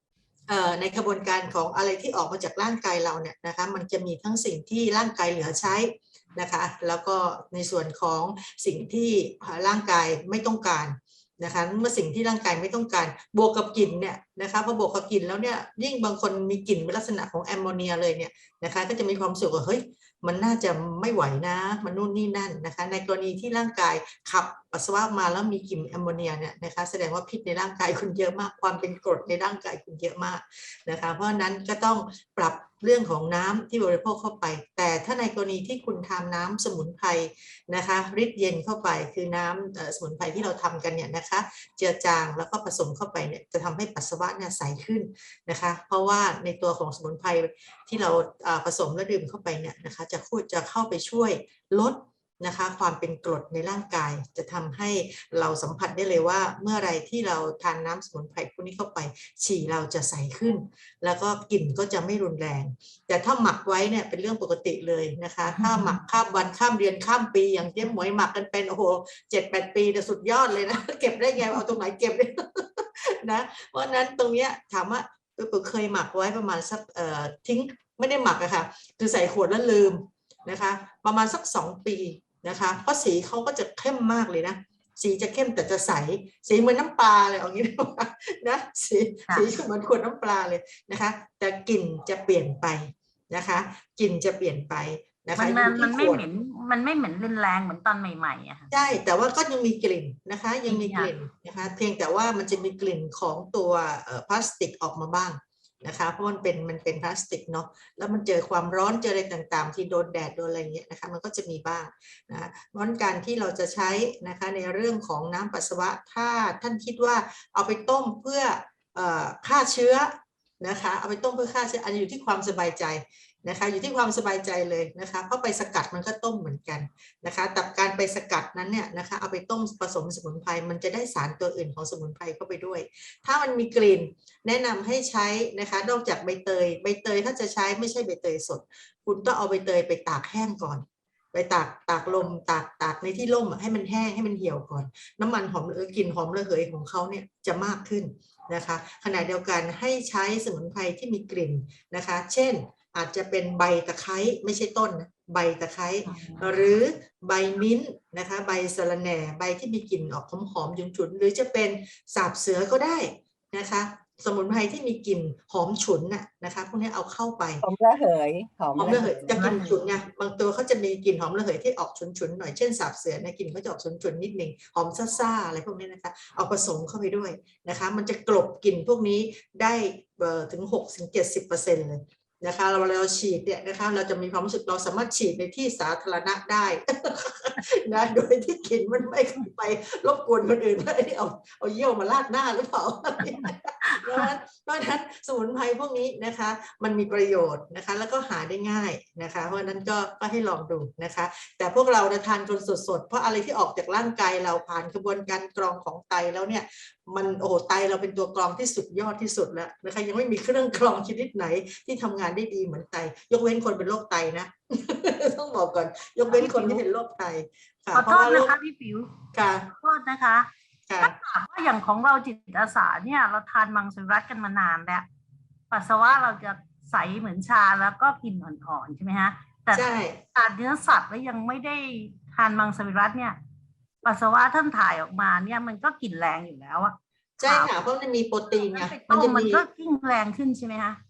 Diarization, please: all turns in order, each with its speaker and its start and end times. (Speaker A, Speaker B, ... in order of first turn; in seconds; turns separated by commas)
Speaker A: 0.5-96.2, Speaker B: 65.5-66.0, Speaker B: 95.4-98.7, Speaker A: 98.7-167.6, Speaker B: 100.7-101.1, Speaker B: 156.1-156.6, Speaker C: 167.6-169.8, Speaker A: 168.8-218.6, Speaker B: 193.3-194.3, Speaker B: 216.3-216.8, Speaker B: 217.9-219.1, Speaker A: 219.3-219.7, Speaker B: 219.8-220.5, Speaker A: 220.9-221.1, Speaker B: 221.0-225.1, Speaker B: 225.7-233.4, Speaker A: 229.7-230.2, Speaker B: 234.0-237.8, Speaker A: 237.4-239.7, Speaker B: 238.5-241.0